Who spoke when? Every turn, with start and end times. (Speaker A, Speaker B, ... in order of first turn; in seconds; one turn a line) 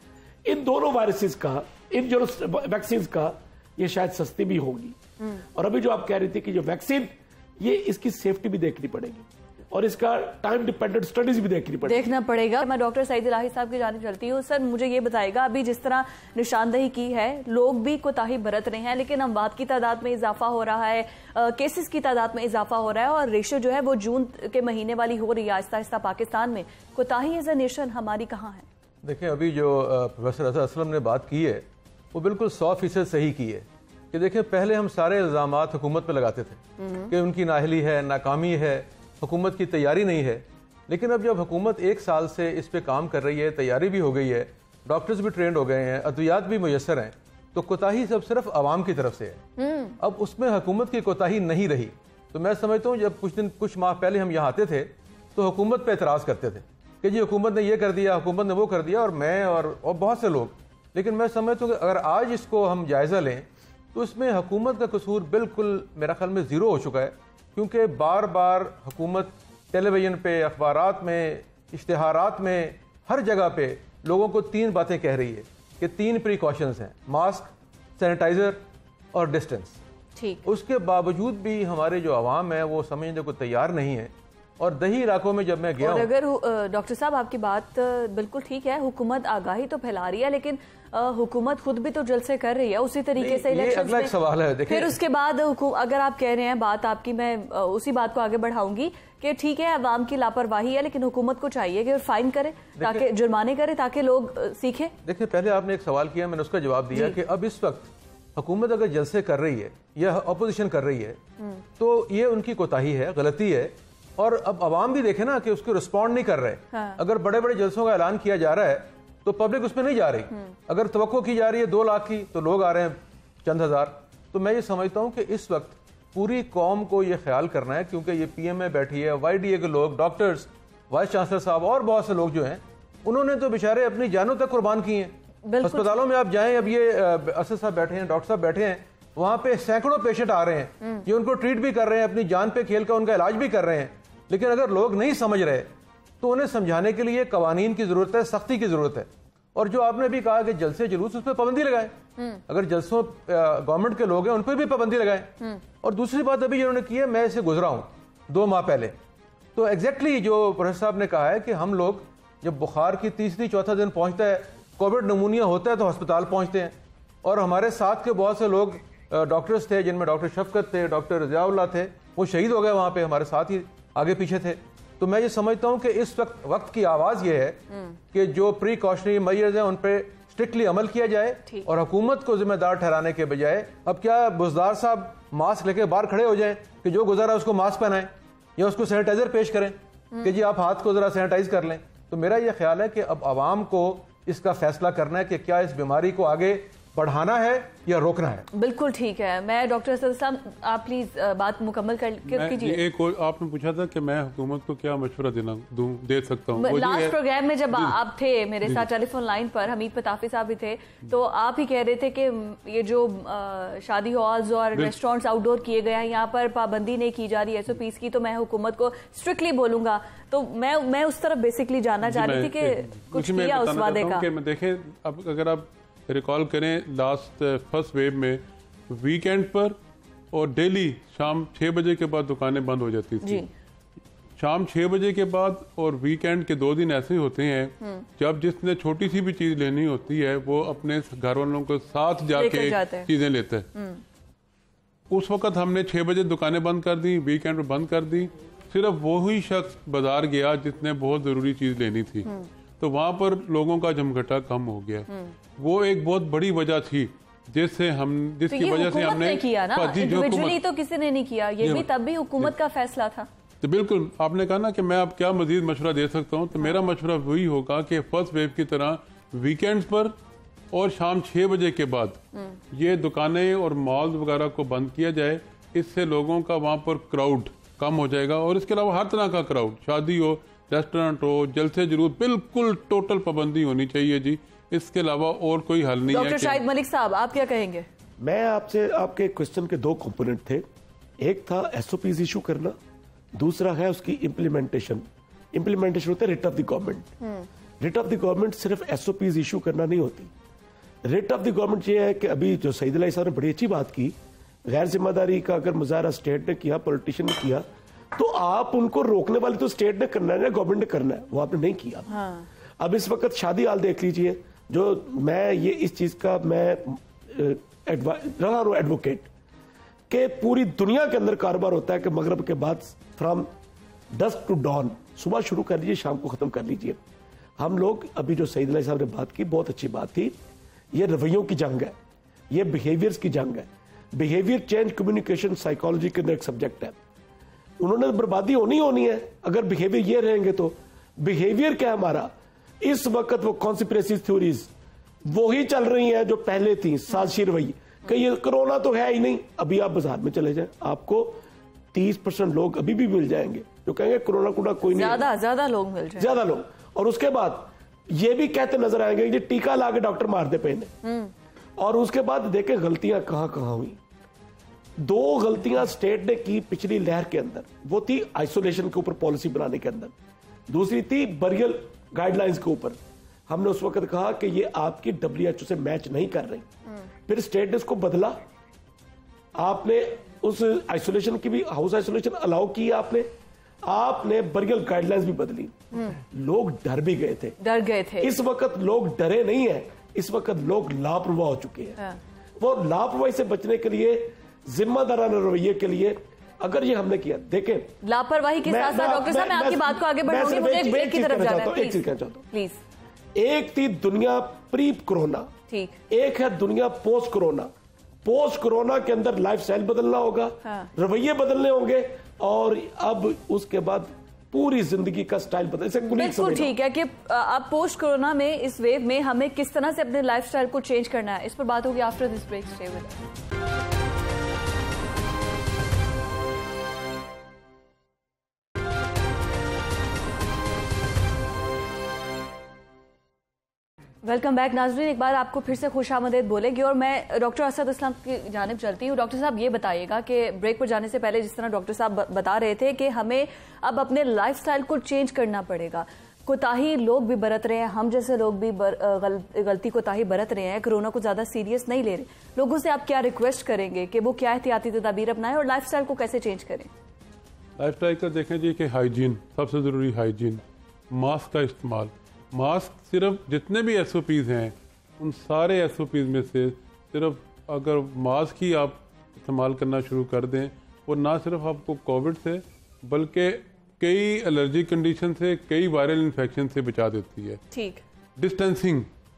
Speaker A: 0.4-5.0
Speaker A: 5.5-12.1
Speaker B: 11.8-28.6
Speaker C: 29.0-49.4
Speaker B: 36.8-37.1
Speaker B: 49.6-50.0
Speaker C: 50.0-78.6
Speaker C: 79.1-79.8
Speaker B: 80.2-80.4
Speaker C: 80.4-86.1
Speaker B: 85.8-94.1
Speaker C: 93.2-95.0
Speaker B: 94.7-104.9
Speaker C: 102.8-103.0
Speaker C: 105.0-111.2
Speaker C: 111.8-151.9
Speaker B: 116.7-117.0
Speaker B: 135.4-135.9
Speaker B: 152.2-152.4
Speaker C: 152.5-158.9
Speaker C: 159.5-198.4
Speaker B: 198.5-202.8
Speaker D: 202.3-207.2
Speaker B: 206.6-224.2
Speaker D: 222.0-229.8
Speaker D: 230.3-233.4
Speaker B: 233.2-233.5
Speaker D: 234.4-243.7
Speaker B: 242.3-243.1
Speaker B: 243.8-244.0
Speaker D: 245.1-260.6
Speaker B: 255.1-255.3
Speaker B: 258.5-263.3
Speaker D: 261.6-261.9
Speaker D: 263.6-270.1
Speaker D: 270.7-272.2
Speaker D: 272.7-286.6
Speaker B: 286.1-287.9
Speaker A: 288.2-290.6
Speaker A: 291.2-292.8
Speaker A: 293.3-297.1
Speaker A: 297.8-300.3
Speaker A: 301.0-304.1
Speaker A: 304.6-312.1
Speaker B: 312.1-312.4
Speaker A: 312.8-319.3
Speaker A: 320.1-323.5
Speaker A: 324.1-327.0
Speaker A: 327.6-330.4
Speaker A: 330.9-331.9
Speaker A: 332.5-337.0
Speaker A: 337.8-344.7
Speaker A: 345.2-355.3
Speaker B: 354.9-356.3
Speaker A: 356.2-360.9
Speaker B: 361.0-361.3
Speaker A: 361.8-364.0
Speaker A: 365.0-370.1
Speaker A: 370.7-376.7
Speaker A: 377.3-378.4
Speaker A: 379.5-383.3
Speaker A: 383.8-387.6
Speaker B: 387.6-388.3
Speaker A: 388.2-392.0
Speaker A: 392.6-397.9
Speaker B: 398.0-402.8
Speaker A: 398.6-402.4
Speaker A: 403.4-405.5
Speaker B: 405.7-406.0
Speaker A: 406.1-407.7
Speaker A: 408.2-416.7
Speaker B: 416.1-423.2
Speaker B: 434.2-456.9
Speaker D: 457.8-477.6
Speaker B: 477.7-478.0
Speaker D: 478.4-479.1